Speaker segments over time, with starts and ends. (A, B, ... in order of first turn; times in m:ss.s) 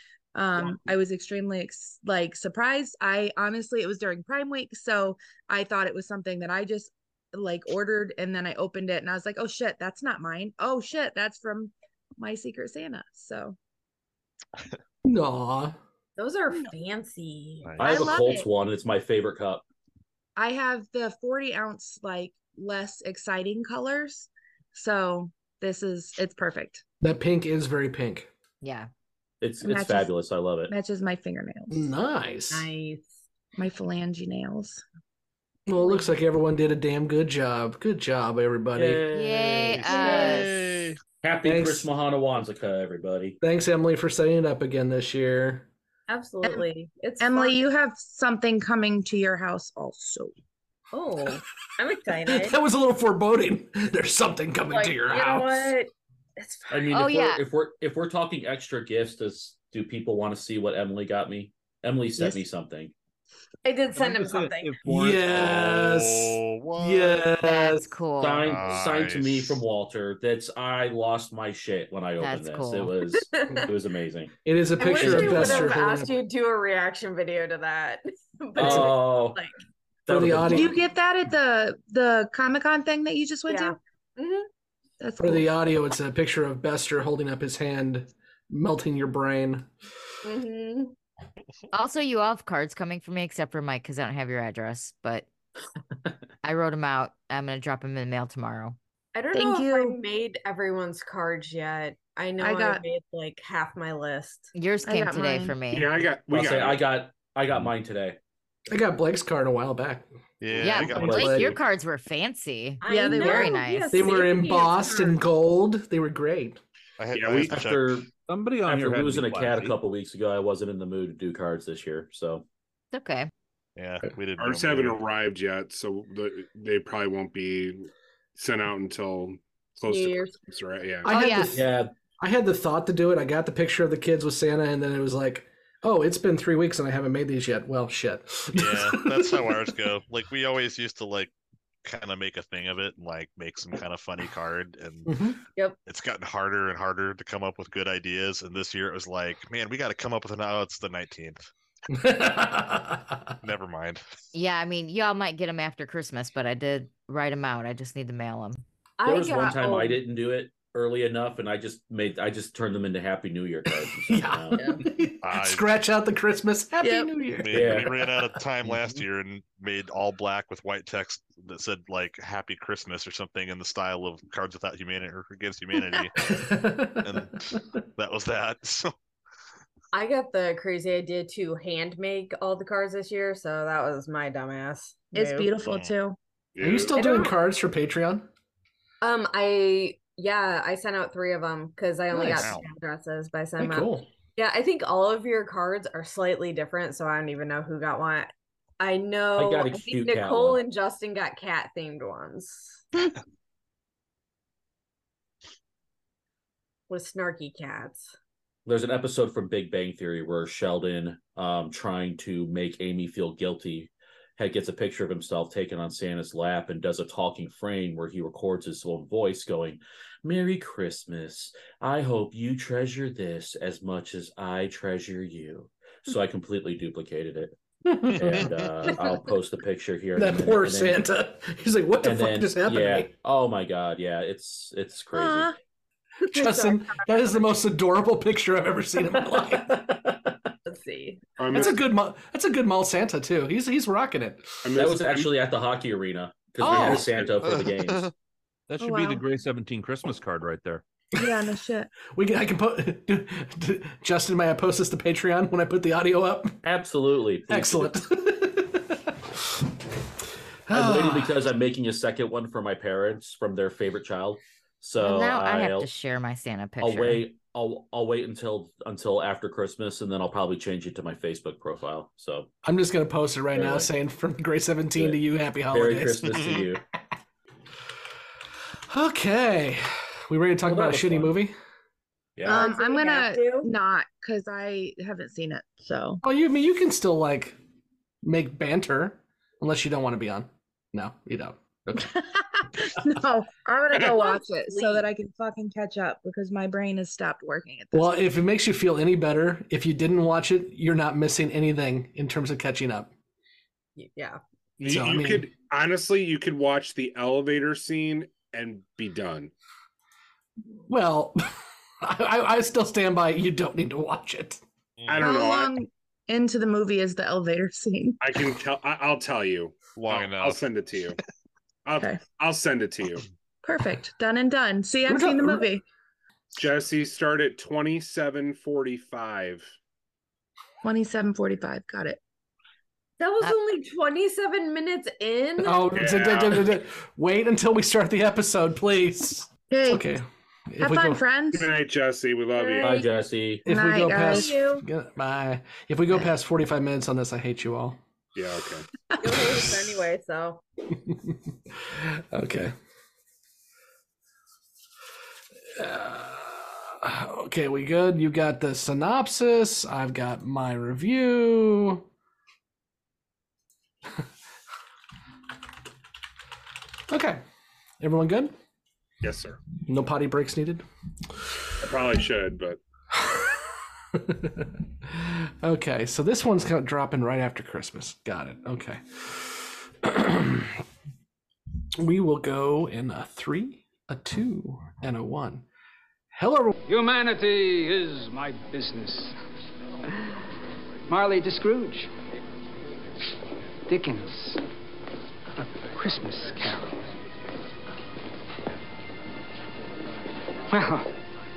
0:00.3-0:13.6 A
0:15.0-0:15.8 B
0:16.2-0:18.2 C
0:17.6-0:18.1 D
0:17.8-0:19.6 E
0:17.8-0:18.5 A
0:20.4-0:26.8 A
0:27.0-0:28.3 B
0:28.6-0:28.9 F
0:29.4-0:30.7 E
0:29.6-0:30.1 A
0:30.7-0:31.9 A
0:31.7-0:32.7 B
0:32.5-0:33.2 C
0:33.6-0:34.8 A
0:35.7-0:39.0 B
0:35.8-0:36.1 A
0:38.8-0:39.8 E
0:39.1-0:40.5 F
0:39.7-0:41.0 D
0:39.9-0:40.6 C
0:39.9-0:40.4 A
0:41.2-0:43.4 E
0:41.4-0:41.9 B
0:43.4-0:45.7 B
0:46.1-0:47.6 C
0:47.2-0:50.3 A
0:50.9-0:52.6 C
0:52.2-0:55.7 B
0:54.7-0:56.8 C
0:56.7-1:02.9 E
0:56.9-0:57.4 F
1:03.6-1:04.8 C
1:03.9-1:05.6 G
1:04.8-1:07.9 B
1:05.3-1:07.2 D
1:07.4-1:08.6 F
1:08.2-1:14.3 E
1:08.4-1:09.6 D
1:12.2-1:12.9 F
1:13.1-1:13.7 C
1:14.4-1:16.1 B
1:14.8-1:19.6 C
1:15.0-1:15.4 E
1:18.6-1:19.4 E
1:18.6-1:18.9 B
1:20.0-1:20.8 E
1:20.1-1:20.7 B
1:20.5-1:23.8 A
1:23.5-1:24.5 C
1:25.0-1:25.5 A
1:25.2-1:29.7 B
1:30.2-1:30.9 C
1:31.7-1:35.2 F
1:36.4-1:38.8 F
1:39.1-1:44.5 C
1:39.3-1:40.0 A
1:42.4-1:42.8 A
1:44.5-1:45.9 F
1:44.8-1:45.6 A
1:45.7-1:46.8 H
1:46.3-1:48.2 E
1:48.7-1:50.0 B
1:50.4-1:51.5 D
1:50.6-1:51.6 B
1:50.6-1:54.2 F
1:50.7-1:51.5 E
1:52.8-1:55.2 C
1:52.9-1:53.6 A
1:53.9-1:56.6 B
1:57.0-1:58.0 D
1:57.1-1:57.6 H
1:57.2-1:58.1 E
1:58.1-1:59.8 G
1:58.6-2:02.4 E
2:02.9-2:03.3 F
2:03.8-2:05.0 D
2:04.4-2:11.1 H
2:09.8-2:10.4 C
2:11.0-2:19.7 B
2:11.1-2:11.5 F
2:11.5-2:11.9 E
2:18.5-2:21.3 D
2:21.8-2:25.2 D
2:25.1-2:25.4 B
2:25.8-2:31.4 D
2:31.9-2:33.3 B
2:33.4-2:34.0 D
2:34.3-2:38.6 F
2:39.0-2:40.0 C
2:39.0-2:44.8 E
2:44.1-2:48.1 B
2:44.5-2:44.8 C
2:45.2-2:45.7 D
2:46.8-2:47.1 A
2:47.4-2:56.1 D
2:47.5-2:47.9 E
2:56.2-2:57.2 B
2:57.0-2:58.9 D
2:59.9-3:05.5 C
3:05.1-3:06.2 A
3:05.6-3:06.0 D
3:06.5-3:07.3 H
3:06.6-3:08.3 B
3:06.9-3:07.3 C
3:09.0-3:22.9 C
3:12.1-3:12.4 B
3:12.3-3:12.6 D
3:13.6-3:14.1 B
3:19.4-3:20.6 E
3:26.9-3:28.1 C
3:28.6-3:47.6 E
3:47.9-3:48.5 B
3:48.1-3:51.0 E
3:48.2-3:48.4 D
3:50.2-3:53.1 B
3:52.0-3:55.5 E
3:55.1-3:55.5 A
3:56.3-4:00.0 B
3:56.3-3:57.5 C
4:00.6-4:01.6 C
4:01.4-4:01.8 H
4:01.5-4:04.7 B
4:04.6-4:05.3 H
4:04.8-4:08.1 E
4:06.6-4:07.2 B
4:07.5-4:08.1 D
4:08.7-4:10.8 G
4:08.8-4:09.2 A
4:11.1-4:11.9 A
4:12.1-4:16.6 B
4:16.6-4:18.0 E
4:17.5-4:19.7 B
4:20.7-4:21.4 B
4:20.7-4:25.9 E
4:25.0-4:27.2 F
4:26.8-4:32.5 E
4:32.6-4:36.6 B
4:33.5-4:33.9 E
4:35.7-4:36.8 E
4:36.3-4:36.7 D
4:38.9-4:41.5 B
4:40.6-4:41.3 E
4:42.4-4:42.7 E
4:42.4-4:43.7 C
4:42.5-4:46.2 A
4:46.2-4:47.6 B
4:48.2-4:52.1 B
4:51.9-4:58.2 A
4:54.0-4:55.1 C
4:57.9-5:03.1 B
5:04.0-5:04.4 C
5:04.8-5:09.5 H
5:04.8-5:05.5 B
5:10.9-5:14.6 B
5:15.0-5:15.4 D
5:15.1-5:15.8 H
5:15.2-5:18.2 A
5:18.2-5:21.2 H
5:19.9-5:20.7 D
5:21.8-5:23.2 H
5:23.6-5:25.8 A
5:25.0-5:25.7 B
5:26.6-5:29.7 H
5:30.8-5:32.2 A
5:33.2-5:35.9 C
5:35.6-5:41.2 B
5:35.9-5:36.7 H
5:39.7-5:40.1 A
5:40.8-5:41.7 A
5:41.5-5:43.0 H
5:42.5-5:43.1 C
5:42.8-5:43.6 E
5:43.6-5:48.0 B
5:43.7-5:44.8 A
5:44.0-5:44.8 C
5:48.3-5:48.8 H
5:49.2-5:50.6 C
5:50.9-5:52.7 B
5:55.7-6:02.0 B
6:07.1-6:07.4 B
6:08.0-6:08.5 B
6:09.2-6:09.6 H
6:09.8-6:10.8 B
6:11.8-6:12.8 H
6:13.1-6:13.5 B
6:14.1-6:20.8 B
6:22.0-6:25.6 B
6:26.3-6:26.7 B
6:26.9-6:29.3 I
6:31.1-6:32.1 I
6:33.9-6:34.6 I
6:35.9-6:37.1 I
6:40.7-6:41.1 I